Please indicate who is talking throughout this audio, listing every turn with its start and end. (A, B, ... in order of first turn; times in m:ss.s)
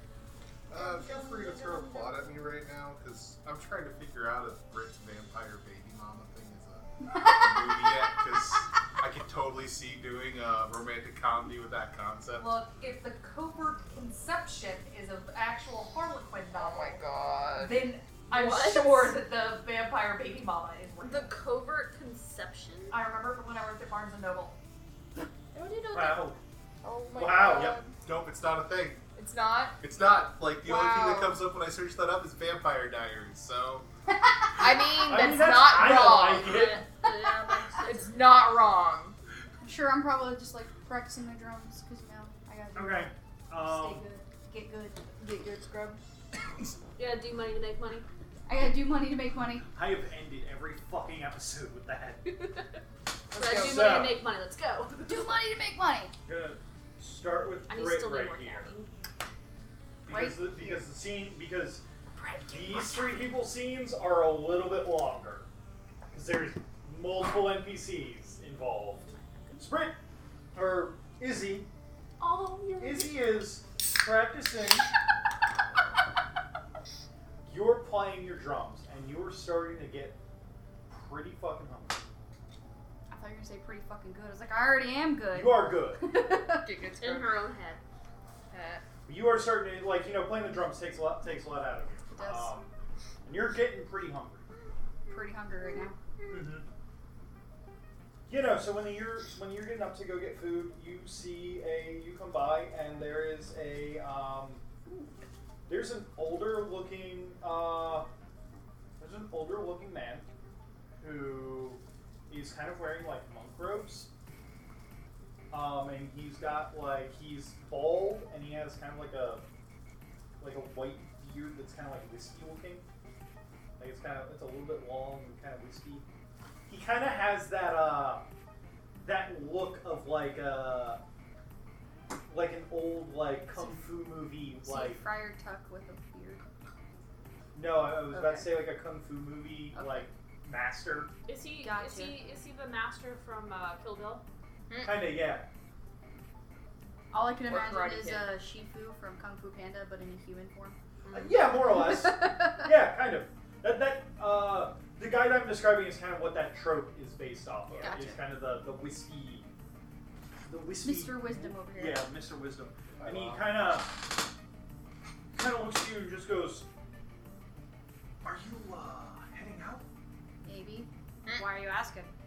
0:00.7-0:12.6 A
0:00.7-0:02.5 B
0:12.4-0:17.0 C
0:16.5-0:17.9 D
0:17.6-0:21.3 C
0:18.3-0:19.2 B
0:21.0-0:23.0 B
0:22.9-0:24.6 C
0:25.5-0:26.3 B
0:25.9-0:26.4 E
0:26.8-0:27.9 D
0:27.1-0:27.8 E
0:28.0-0:29.0 A
0:29.2-0:29.8 D
0:29.8-0:33.9 A
0:30.6-0:31.4 D
0:34.6-0:36.5 D
0:35.0-0:36.9 E
0:35.5-0:38.4 B
0:37.8-0:39.2 D
0:39.6-0:45.0 F
0:42.8-0:44.0 E
0:45.2-0:46.0 D
0:47.0-0:48.1 B
0:48.5-0:49.7 F
0:49.7-0:52.3 E
0:52.3-0:52.7 B
0:53.3-0:54.2 E
0:53.4-0:54.0 D
0:53.4-0:55.3 B
0:55.0-0:56.1 F
0:56.3-0:58.7 E
0:57.7-0:58.9 B
1:00.1-1:01.8 E
1:00.1-1:00.8 F
1:02.2-1:03.3 B
1:02.5-1:05.5 E
1:06.1-1:10.0 E
1:09.1-1:09.6 B
1:10.5-1:11.7 E
1:12.2-1:13.3 B
1:12.8-1:14.9 E
1:17.5-1:20.2 E
1:20.9-1:22.0 E
1:23.1-1:26.7 F
1:25.3-1:26.0 E
1:26.6-1:27.4 D
1:27.0-1:27.8 B
1:28.5-1:28.8 D
1:29.1-1:32.7 E
1:32.1-1:32.5 F
1:33.2-1:34.5 E
1:35.1-1:36.0 F
1:36.3-1:36.6 E
1:38.3-1:44.6 E
1:45.7-1:48.1 E
1:49.0-1:50.3 E
1:51.0-1:54.1 E
1:55.5-1:59.4 E
2:00.4-2:02.9 E
2:03.8-2:06.0 E
2:06.7-2:08.3 E
2:09.0-2:11.0 E
2:12.3-2:15.0 E
2:14.6-2:16.4 F
2:17.5-2:21.1 E
2:18.1-2:18.5 F
2:19.8-2:20.1 F
2:21.3-2:24.2 B
2:21.6-2:22.2 F
2:24.7-2:25.1 D
2:24.8-2:25.5 E
2:27.1-2:30.8 F
2:27.4-2:28.4 D
2:31.1-2:39.5 E
2:31.6-2:32.7 F
2:37.8-2:38.2 F
2:40.5-2:44.1 E
2:40.8-2:42.1 F
2:43.0-2:43.5 A
2:45.3-2:46.7 E
2:48.2-2:49.9 E
2:50.4-2:52.1 F